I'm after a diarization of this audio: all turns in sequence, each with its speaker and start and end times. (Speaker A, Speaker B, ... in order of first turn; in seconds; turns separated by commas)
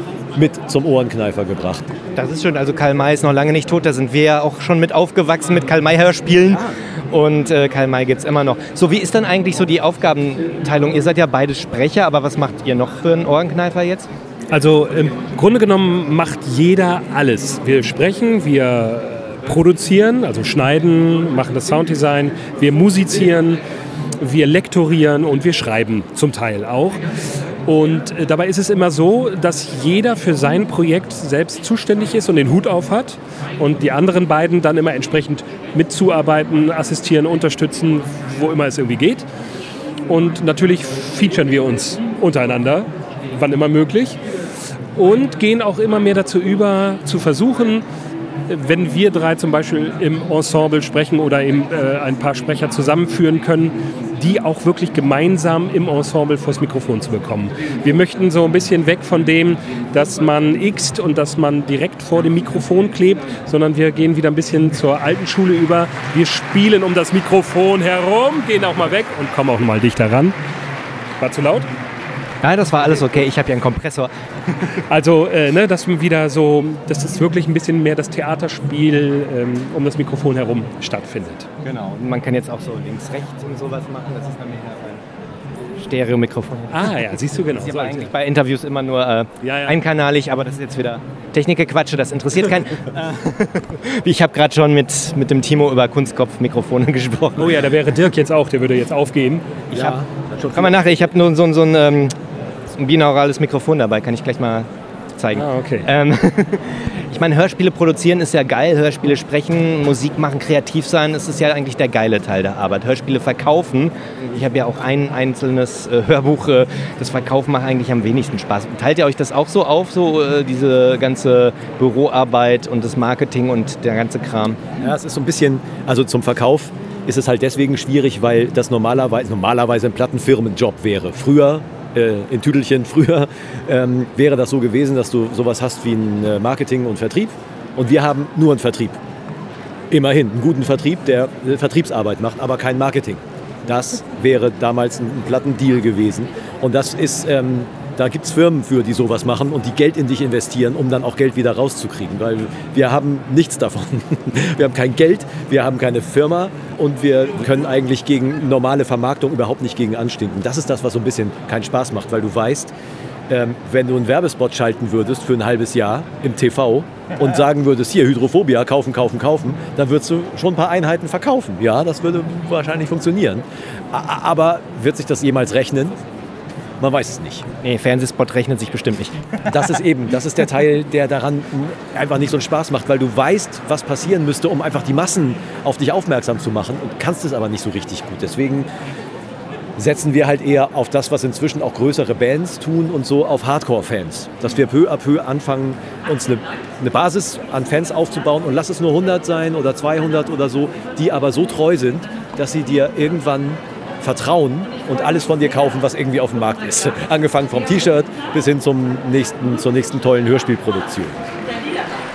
Speaker A: 0.3-1.9, Speaker B: 2.2-14.1, Speaker C: 14.5-23.6, Speaker C: 24.2-27.0, Speaker C: 27.7-39.2, Speaker C: 40.1-44.2, Speaker C: 45.0-47.9, Speaker C: 48.5-70.4, Speaker C: 71.2-71.7, Speaker B: 72.4-74.7, Speaker C: 74.9-81.5, Speaker B: 81.6-85.0, Speaker B: 85.8-87.0, Speaker C: 86.7-88.1, Speaker B: 87.5-97.5, Speaker C: 89.4-89.8, Speaker C: 97.4-99.5, Speaker B: 99.7-100.0, Speaker A: 99.7-100.9, Speaker B: 100.5-102.2, Speaker B: 102.8-124.6, Speaker C: 105.3-105.9, Speaker A: 124.8-139.0, Speaker A: 139.9-162.7, Speaker A: 163.3-176.0, Speaker A: 176.8-177.5, Speaker B: 177.6-179.7, Speaker A: 179.5-188.7, Speaker A: 189.8-211.4